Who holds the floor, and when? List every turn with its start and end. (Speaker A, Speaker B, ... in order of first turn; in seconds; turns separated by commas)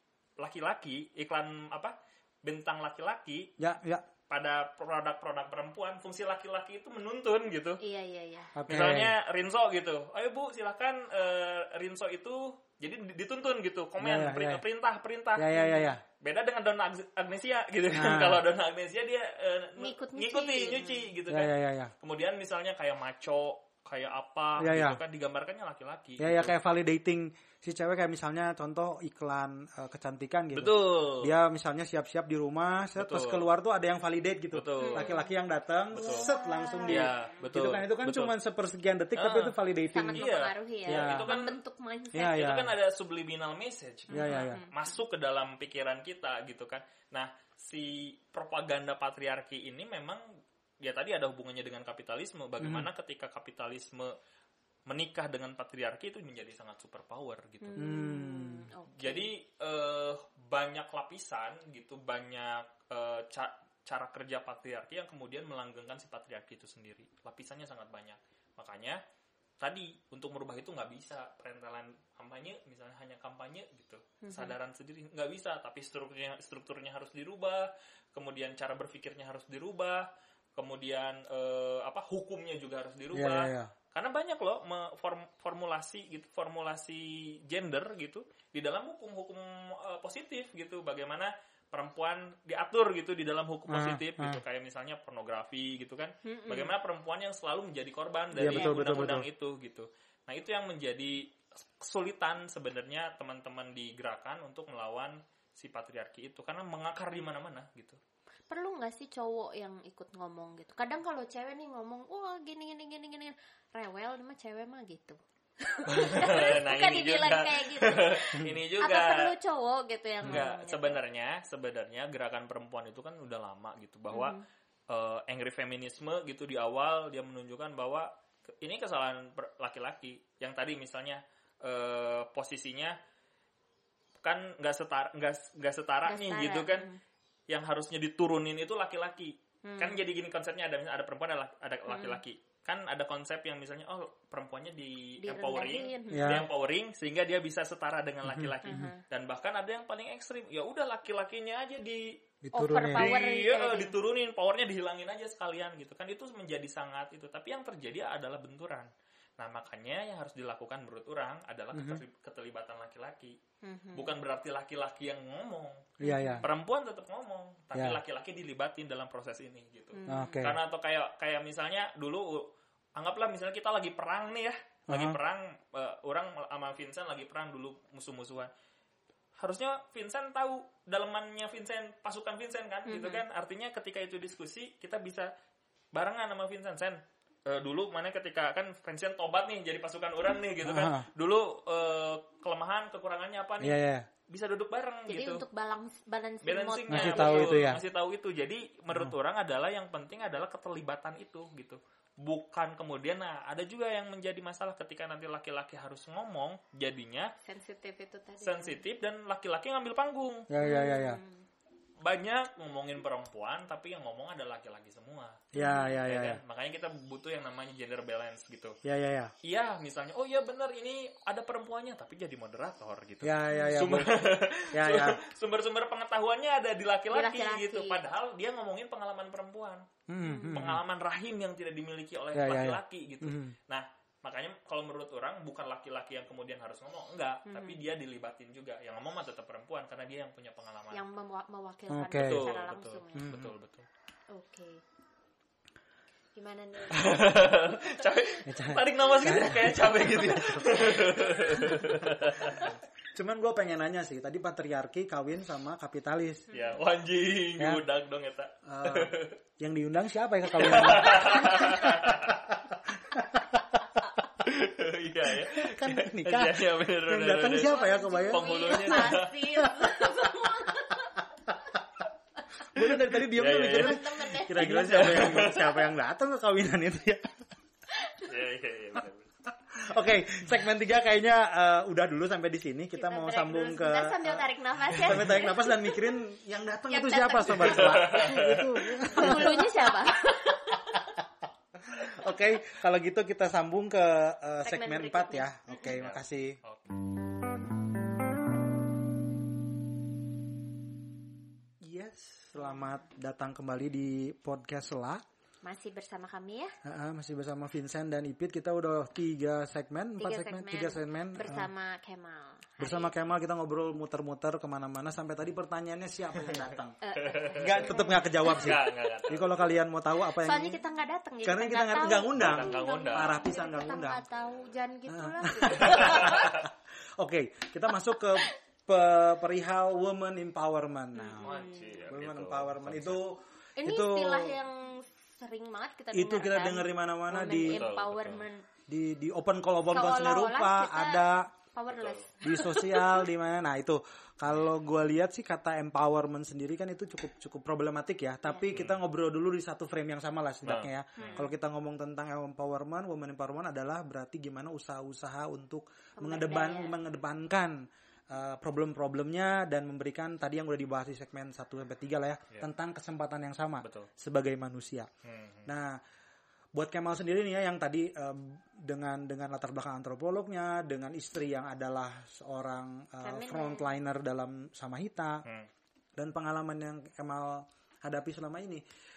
Speaker A: 0.4-3.5, Speaker B: 3.6-4.0, Speaker A: 4.3-7.8, Speaker C: 7.8-8.5, Speaker B: 8.5-9.1, Speaker A: 8.7-15.6, Speaker B: 14.0-14.6, Speaker B: 15.3-16.0, Speaker C: 15.5-15.9, Speaker A: 16.2-26.5, Speaker B: 17.9-18.4, Speaker C: 19.8-21.1, Speaker B: 21.3-21.9, Speaker B: 24.6-25.0, Speaker B: 26.2-40.3, Speaker A: 30.5-31.4, Speaker A: 33.0-33.5, Speaker A: 34.5-35.1, Speaker C: 34.8-35.3, Speaker A: 35.9-36.3, Speaker C: 36.0-37.3, Speaker A: 36.8-38.3, Speaker A: 39.2-39.6, Speaker C: 39.9-42.4, Speaker A: 40.1-41.6, Speaker B: 40.9-41.4, Speaker B: 42.1-42.7, Speaker A: 42.2-50.2, Speaker C: 44.1-44.7, Speaker B: 44.1-44.6, Speaker A: 50.8-54.1, Speaker B: 52.6-52.9, Speaker A: 54.9-58.0, Speaker C: 57.6-59.3, Speaker B: 57.8-58.7, Speaker A: 58.9-69.0, Speaker A: 69.6-108.0, Speaker C: 74.2-74.5, Speaker B: 83.1-83.7, Speaker B: 93.7-94.4, Speaker C: 96.2-96.7, Speaker B: 98.3-99.3, Speaker C: 98.4-99.0, Speaker C: 108.5-121.0, Speaker A: 115.9-119.3, Speaker A: 120.2-133.0, Speaker C: 124.1-124.4, Speaker A: 134.2-136.8, Speaker C: 136.1-137.0, Speaker A: 137.5-152.2, Speaker C: 139.6-140.0, Speaker C: 141.9-142.2, Speaker C: 145.2-146.4, Speaker B: 146.1-146.5, Speaker B: 148.2-148.9, Speaker C: 148.6-149.0, Speaker B: 152.4-153.1, Speaker C: 152.5-153.9, Speaker A: 152.8-163.3, Speaker B: 161.7-162.0, Speaker C: 163.6-164.1, Speaker A: 163.9-178.5, Speaker B: 166.0-166.5, Speaker C: 166.0-166.4, Speaker B: 167.7-168.0, Speaker C: 169.9-170.5, Speaker B: 170.1-170.6, Speaker B: 174.9-175.2, Speaker A: 179.4-185.3, Speaker C: 182.9-183.2, Speaker A: 185.9-193.8, Speaker B: 190.6-191.1, Speaker B: 193.6-194.1, Speaker A: 194.3-195.4, Speaker C: 195.1-197.7, Speaker A: 196.4-207.3, Speaker B: 196.9-197.8, Speaker C: 207.4-208.8, Speaker A: 208.4-210.5, Speaker B: 210.5-211.2, Speaker C: 210.6-211.4, Speaker A: 212.0-215.4, Speaker B: 215.5-216.4, Speaker C: 215.6-216.0, Speaker A: 216.0-218.8, Speaker B: 218.8-219.3, Speaker A: 219.4-229.9, Speaker B: 223.2-225.2, Speaker C: 223.5-223.8, Speaker C: 227.1-228.0, Speaker B: 230.1-230.8, Speaker C: 230.2-230.7, Speaker A: 230.4-241.0, Speaker B: 232.3-233.5, Speaker C: 237.4-237.8, Speaker C: 240.9-243.4, Speaker B: 241.9-242.4, Speaker A: 242.1-243.9, Speaker B: 243.1-243.5, Speaker C: 244.3-244.8, Speaker C: 246.3-247.5, Speaker A: 246.9-252.7, Speaker B: 248.4-250.9, Speaker C: 250.9-251.7, Speaker B: 251.6-256.4, Speaker C: 256.5-256.8, Speaker A: 256.5-259.3, Speaker B: 258.6-263.8, Speaker A: 260.5-262.4, Speaker A: 264.4-269.3, Speaker B: 265.3-270.0, Speaker C: 267.5-271.3, Speaker C: 272.5-272.9, Speaker B: 272.7-277.4, Speaker A: 273.2-275.7, Speaker C: 273.6-275.6, Speaker C: 277.9-278.3, Speaker A: 278.2-279.3, Speaker B: 279.7-291.3, Speaker C: 282.9-286.2, Speaker C: 286.9-288.4, Speaker A: 287.6-289.4, Speaker C: 289.0-290.8, Speaker B: 291.8-296.6, Speaker C: 294.6-295.9, Speaker A: 295.9-296.9, Speaker B: 301.8-305.2, Speaker C: 305.6-306.7, Speaker B: 306.8-311.7, Speaker C: 310.2-313.1, Speaker B: 312.8-316.9, Speaker C: 317.0-318.6, Speaker A: 317.1-319.7, Speaker B: 317.6-320.8, Speaker C: 320.2-326.5, Speaker B: 321.4-324.2, Speaker A: 322.3-324.0, Speaker B: 325.1-334.6, Speaker A: 325.7-326.6, Speaker C: 331.1-332.0, Speaker A: 331.4-333.2, Speaker C: 333.8-338.6, Speaker B: 336.1-337.8, Speaker A: 337.6-338.4, Speaker B: 338.9-341.5, Speaker C: 339.9-341.2, Speaker C: 341.7-343.2, Speaker A: 341.9-342.3, Speaker B: 342.4-357.8, Speaker C: 348.4-348.7, Speaker A: 348.7-349.0, Speaker A: 350.6-351.5, Speaker C: 351.2-351.5, Speaker C: 356.2-356.9, Speaker B: 358.3-365.1, Speaker A: 363.8-364.1, Speaker A: 365.2-365.7, Speaker B: 365.6-366.0, Speaker B: 366.7-375.4, Speaker C: 373.2-373.9, Speaker B: 376.2-378.8